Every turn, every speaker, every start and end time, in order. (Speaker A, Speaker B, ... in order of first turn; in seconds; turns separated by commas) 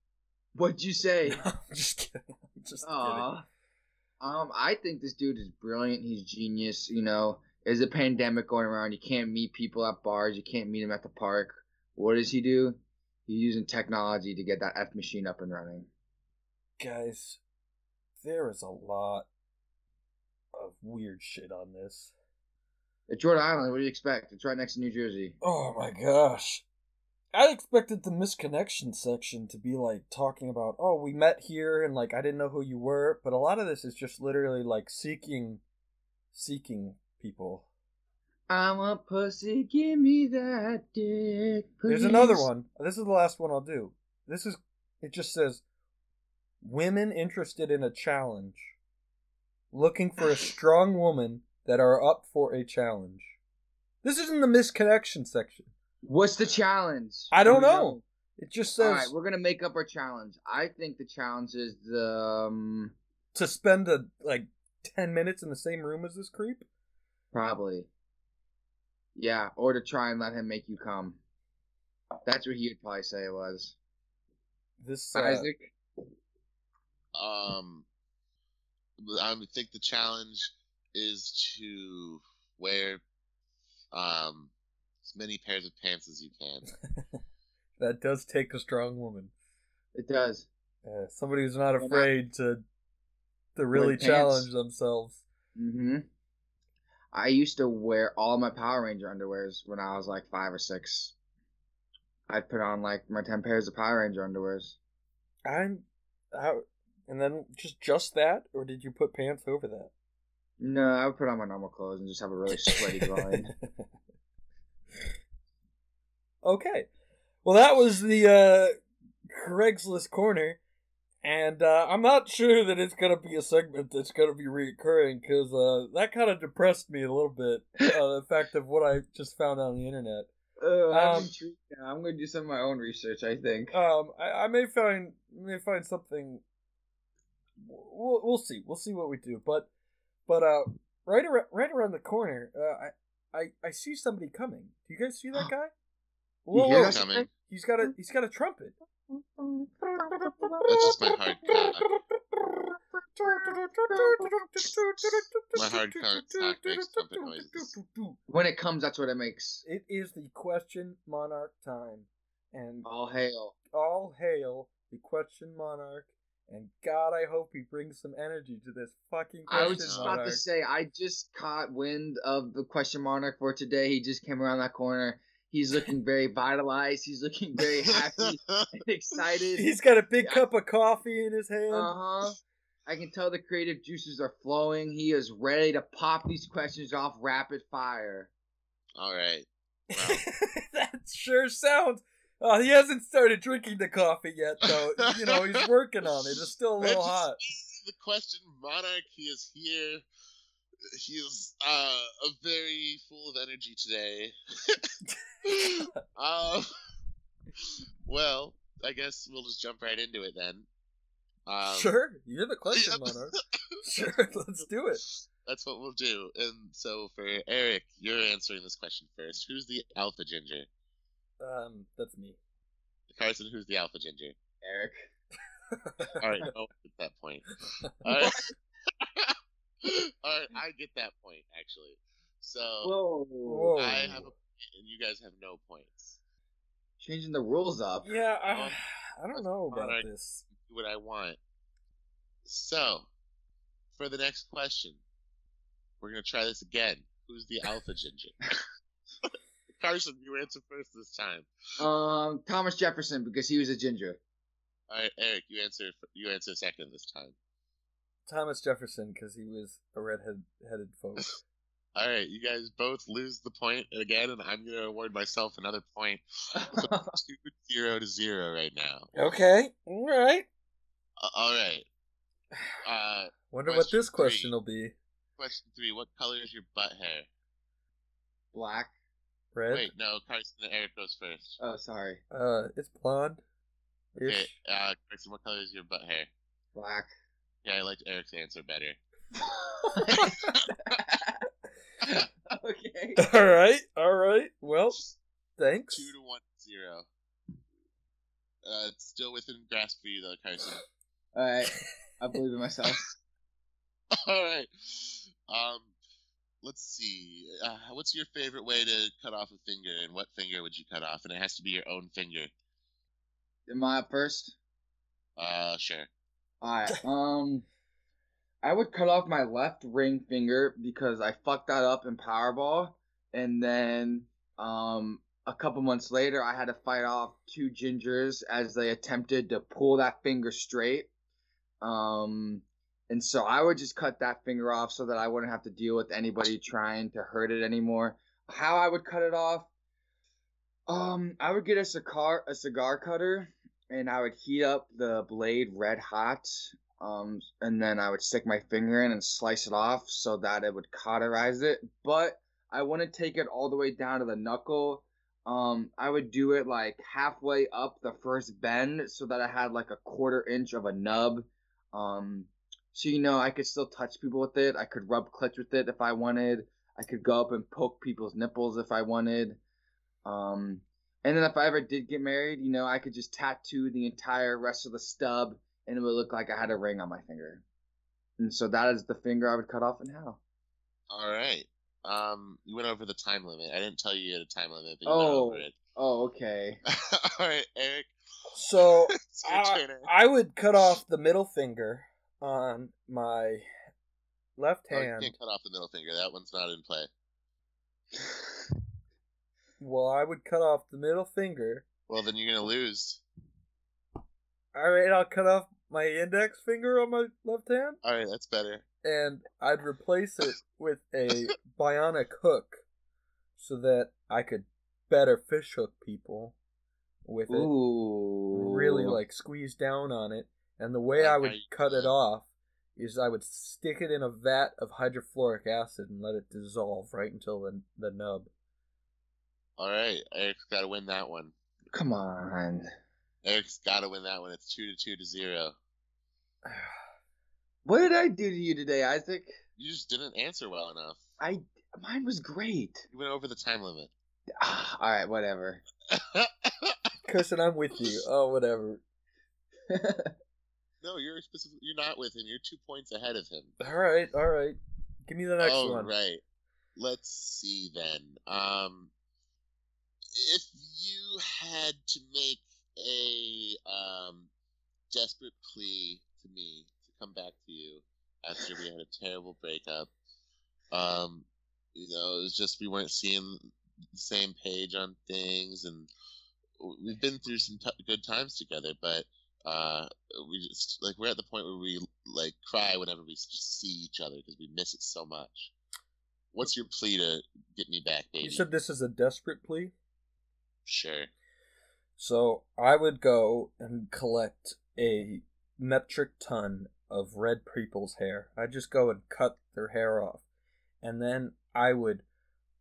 Speaker A: 0.5-1.4, Speaker B: 1.3-3.3, Speaker A: 2.8-3.4, Speaker A: 4.2-15.9, Speaker B: 16.8-17.4, Speaker B: 18.2-19.3, Speaker B: 20.5-22.1, Speaker A: 23.1-25.4, Speaker B: 25.4-26.6, Speaker B: 27.3-35.6, Speaker B: 36.3-37.7, Speaker A: 38.5-42.5, Speaker B: 41.9-45.6, Speaker B: 46.6-48.7, Speaker B: 49.7-53.3, Speaker B: 54.0-55.7, Speaker A: 56.0-58.0, Speaker B: 57.3-59.1, Speaker A: 58.8-62.9, Speaker B: 63.3-66.7, Speaker A: 67.3-67.9, Speaker A: 69.2-71.2, Speaker A: 72.2-73.7, Speaker B: 74.8-75.5, Speaker A: 75.1-75.7, Speaker C: 77.1-77.8, Speaker C: 79.0-83.0, Speaker C: 83.9-84.5, Speaker C: 85.0-86.7, Speaker B: 87.8-89.3, Speaker A: 89.9-90.5, Speaker B: 90.8-92.6, Speaker A: 91.8-92.1, Speaker B: 93.5-95.2, Speaker A: 93.7-94.5, Speaker A: 95.5-96.0, Speaker A: 97.1-101.1, Speaker A: 102.3-104.8, Speaker B: 105.5-109.9, Speaker A: 110.6-113.5, Speaker B: 112.7-113.8, Speaker B: 116.4-116.9, Speaker B: 117.4-120.6, Speaker B: 121.2-130.3, Speaker A: 130.6-133.8, Speaker B: 130.9-131.3, Speaker B: 133.7-136.4, Speaker B: 137.6-139.7, Speaker B: 140.3-145.7, Speaker B: 146.4-148.7, Speaker A: 146.5-147.3, Speaker C: 146.7-147.3, Speaker B: 150.0-158.2, Speaker C: 150.6-151.9, Speaker A: 153.9-154.2, Speaker C: 155.5-157.7, Speaker A: 158.3-159.6, Speaker B: 159.6-162.9, Speaker A: 162.8-163.5, Speaker B: 163.7-170.4, Speaker A: 169.5-179.7, Speaker C: 169.5-170.2, Speaker C: 178.2-178.7, Speaker B: 179.6-181.9, Speaker A: 181.7-188.3, Speaker C: 189.0-190.2, Speaker B: 189.9-197.4, Speaker C: 195.1-195.6, Speaker C: 196.8-200.0, Speaker C: 200.9-204.9, Speaker C: 205.4-206.7, Speaker C: 207.6-210.7, Speaker C: 211.4-211.9, Speaker B: 211.6-215.0, Speaker C: 212.7-213.3, Speaker C: 215.1-220.7, Speaker B: 221.4-222.4, Speaker C: 223.1-224.3, Speaker A: 224.6-225.0, Speaker B: 225.7-226.2, Speaker C: 226.2-227.4, Speaker B: 227.8-228.3, Speaker C: 228.0-232.9, Speaker A: 232.8-233.7, Speaker B: 233.4-234.3, Speaker C: 233.8-236.2, Speaker A: 237.0-238.2, Speaker B: 238.0-240.5, Speaker C: 238.5-238.8, Speaker C: 239.3-241.4, Speaker C: 242.4-243.1, Speaker C: 243.9-245.0, Speaker C: 246.0-248.4, Speaker C: 249.2-251.5, Speaker A: 251.8-254.2, Speaker C: 254.9-257.3, Speaker B: 258.3-261.4, Speaker C: 261.9-269.1, Speaker A: 266.6-267.1, Speaker B: 269.1-270.5, Speaker C: 271.2-271.9, Speaker C: 272.8-274.5, Speaker B: 273.5-274.9, Speaker C: 275.4-277.3, Speaker A: 278.5-278.9, Speaker B: 279.5-279.9, Speaker C: 279.7-281.6, Speaker A: 281.6-282.2, Speaker B: 282.3-283.4, Speaker B: 284.1-284.5, Speaker C: 284.2-286.3, Speaker A: 286.7-287.1, Speaker C: 287.6-289.0, Speaker A: 289.4-290.3, Speaker B: 290.1-290.5, Speaker A: 290.9-291.4, Speaker A: 292.0-293.2, Speaker B: 293.2-295.0, Speaker B: 295.6-296.1, Speaker C: 295.9-297.1, Speaker C: 298.6-300.8, Speaker A: 301.3-303.0, Speaker C: 304.1-305.9, Speaker C: 306.6-312.5, Speaker A: 313.7-314.6, Speaker C: 315.4-316.1, Speaker A: 316.6-317.6, Speaker A: 318.6-331.1, Speaker A: 331.8-339.7, Speaker A: 340.9-369.6, Speaker A: 370.2-377.6, Speaker A: 378.4-380.4, Speaker C: 381.1-385.8, Speaker A: 385.1-386.8, Speaker C: 386.9-388.1, Speaker B: 388.5-393.7, Speaker C: 389.2-390.1, Speaker B: 394.6-395.3, Speaker C: 394.9-397.1, Speaker B: 399.8-401.9, Speaker C: 402.1-403.2, Speaker B: 404.7-408.0, Speaker C: 408.0-408.8, Speaker B: 409.0-412.8, Speaker B: 413.6-416.6, Speaker B: 417.2-417.7, Speaker A: 417.5-419.2, Speaker B: 418.5-428.5, Speaker C: 421.2-422.1, Speaker C: 429.8-431.5, Speaker A: 431.9-432.9, Speaker C: 433.4-435.7, Speaker A: 437.8-439.5, Speaker C: 439.8-441.2, Speaker A: 441.4-443.1, Speaker C: 443.1-444.1, Speaker A: 444.6-445.8, Speaker C: 446.1-447.0, Speaker B: 447.2-449.0, Speaker A: 449.9-450.3, Speaker C: 451.0-453.8, Speaker B: 453.8-456.1, Speaker C: 455.6-456.4, Speaker C: 456.9-459.1, Speaker C: 460.3-464.5, Speaker C: 465.1-470.1, Speaker C: 470.9-473.6, Speaker C: 474.1-476.1, Speaker C: 476.8-485.7, Speaker C: 486.5-488.6, Speaker B: 488.4-489.9, Speaker C: 490.8-491.3, Speaker B: 492.2-500.4, Speaker B: 501.0-502.2